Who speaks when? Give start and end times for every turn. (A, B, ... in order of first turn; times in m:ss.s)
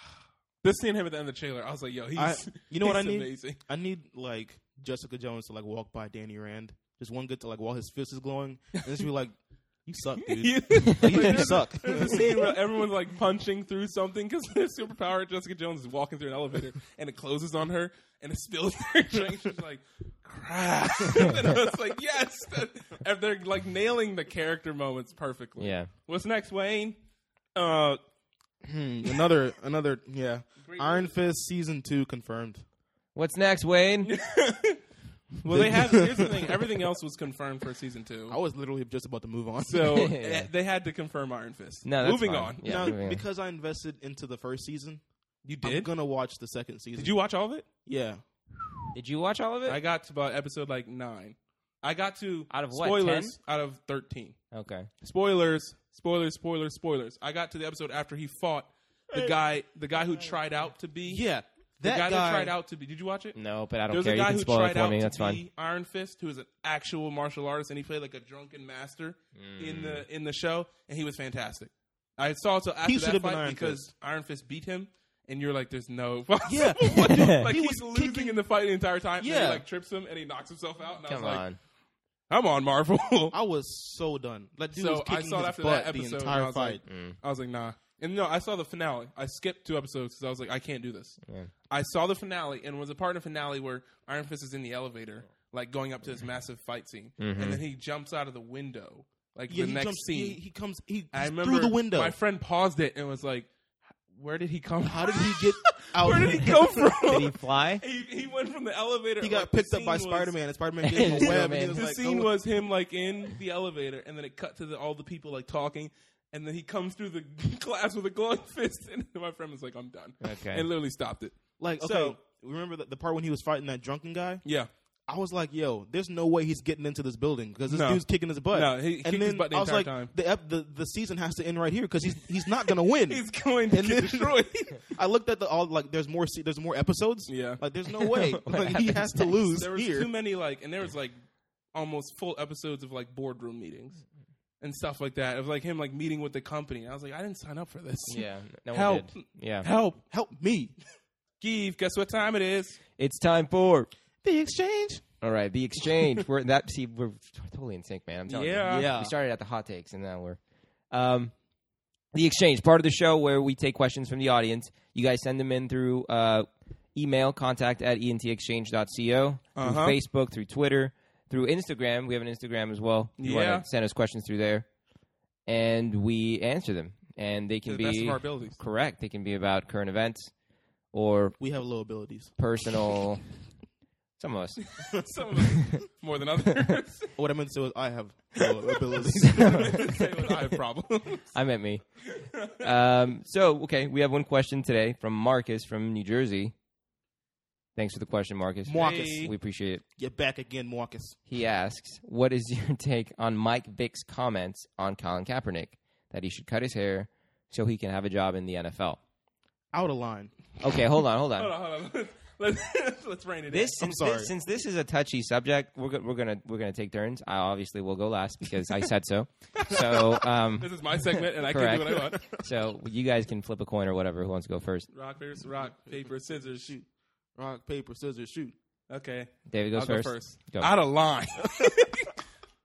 0:00.6-0:03.6 A
0:02.1-0:12.6 B
0:10.2-0:27.0 A
0:10.9-0:11.5 C
0:25.6-0:25.9 C
0:27.5-0:28.0 A
0:28.6-0:32.6 B
0:30.6-0:31.1 A
0:33.1-0:34.1 C
0:34.0-0:34.8 A
0:35.4-0:38.4 A
0:35.5-0:36.7 B
0:38.3-0:40.1 B
0:39.6-0:42.8 A
0:39.9-0:40.5 C
0:41.8-0:43.2 C
0:42.6-0:45.0 B
0:45.4-0:45.9 A
0:45.6-0:47.2 B
0:47.0-0:47.6 A
0:47.8-0:48.2 B
0:48.9-0:49.8 C
0:49.6-0:54.4 A
0:52.5-0:53.3 C
0:54.5-0:54.9 C
0:55.0-1:01.2 A
1:01.1-1:02.5 B
1:01.8-1:03.4 A
1:03.3-1:05.4 C
1:03.9-1:21.4 A
1:09.4-1:10.0 C
1:12.8-1:13.8 B
1:16.5-1:18.4 B
1:17.0-1:17.5 C
1:19.2-1:19.6 B
1:21.1-1:21.6 C
1:22.3-1:23.4 A
1:23.3-1:26.8 B
1:24.7-1:40.4 A
1:26.8-1:27.2 C
1:31.2-1:31.5 C
1:37.2-1:37.6 C
1:39.5-1:42.2 B
1:41.1-1:43.5 A
1:44.1-1:50.3 A
1:44.8-1:46.9 B
1:47.0-1:47.8 C
1:49.2-1:52.3 B
1:50.8-1:51.8 C
1:51.0-2:02.2 A
2:00.2-2:00.7 C
2:01.6-2:04.4 B
2:04.4-2:04.7 A
2:05.1-2:14.4 B
2:07.7-2:10.1 A
2:13.1-2:14.9 A
2:14.9-2:20.1 B
2:17.3-2:17.6 A
2:18.3-2:19.3 C
2:19.5-2:21.2 A
2:21.7-2:24.0 A
2:24.6-2:30.0 A
2:28.1-2:29.7 C
2:30.1-2:30.7 B
2:31.4-2:32.8 A
2:33.0-2:33.9 C
2:34.2-2:35.0 B
2:35.2-2:40.4 C
2:38.3-2:38.9 A
2:38.7-2:39.1 B
2:40.9-2:41.3 C
2:42.1-2:54.7 C
2:49.6-2:50.0 A
2:53.2-2:53.6 A
2:55.4-3:00.3 C
2:57.7-2:58.6 A
3:00.9-3:01.4 C
3:01.4-3:02.3 B
3:02.4-3:03.2 C
3:04.2-3:04.6 C
3:04.8-3:07.1 A
3:07.2-3:10.0 B
3:09.2-3:10.0 C
3:09.2-3:11.3 A
3:11.3-3:16.5 C
3:12.2-3:12.7 A
3:17.8-3:19.8 C
3:18.6-3:19.3 B
3:18.7-3:19.3 A
3:20.0-3:21.2 B
3:21.3-3:29.0 C
3:29.7-3:30.3 B
3:30.6-3:31.5 C
3:31.4-3:33.8 A
3:33.5-3:40.7 C
3:33.8-3:34.3 B
3:40.6-3:42.4 A
3:41.4-3:44.9 C
3:44.9-3:46.7 A
3:45.7-3:48.5 B
3:48.9-3:52.2 A
3:49.5-3:50.7 C